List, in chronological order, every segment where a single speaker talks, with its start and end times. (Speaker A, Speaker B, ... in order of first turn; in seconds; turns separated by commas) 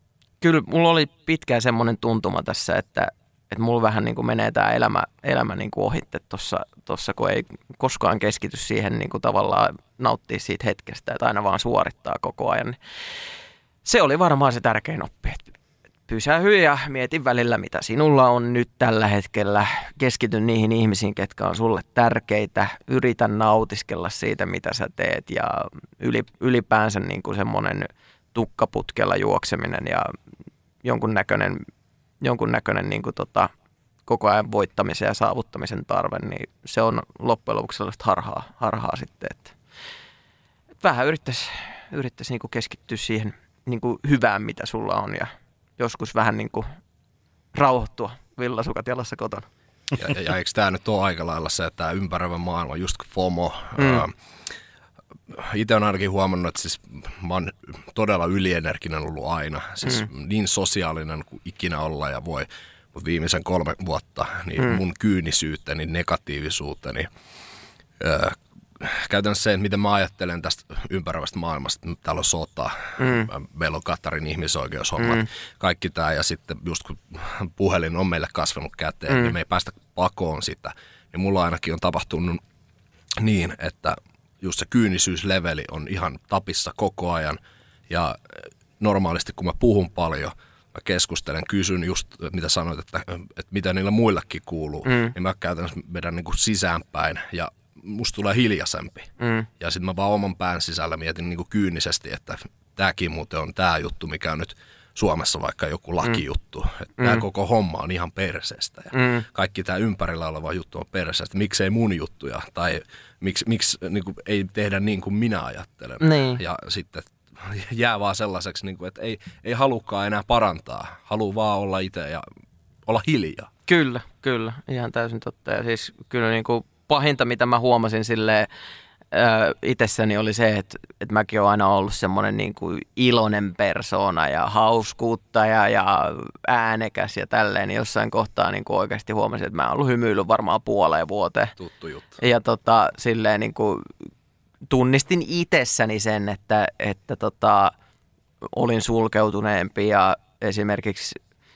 Speaker A: 0.4-12.8, Speaker A: 13.8-15.4, Speaker A: 16.1-30.1, Speaker A: 30.8-31.6, Speaker A: 32.2-33.5, Speaker A: 34.1-39.5, Speaker A: 40.8-46.6, Speaker A: 47.5-49.5, Speaker B: 49.9-54.1, Speaker A: 53.8-54.0, Speaker B: 55.3-67.1, Speaker B: 68.0-82.4, Speaker A: 73.0-73.3, Speaker A: 75.0-75.2, Speaker B: 83.2-87.4, Speaker B: 87.9-122.2, Speaker A: 94.8-95.1, Speaker A: 99.2-99.5, Speaker A: 107.0-107.2, Speaker A: 108.9-109.2, Speaker A: 116.0-116.4, Speaker B: 122.9-123.5, Speaker A: 123.7-128.5, Speaker A: 129.1-141.5, Speaker B: 141.6-142.2, Speaker A: 142.2-143.9, Speaker A: 144.7-147.7, Speaker A: 148.5-151.2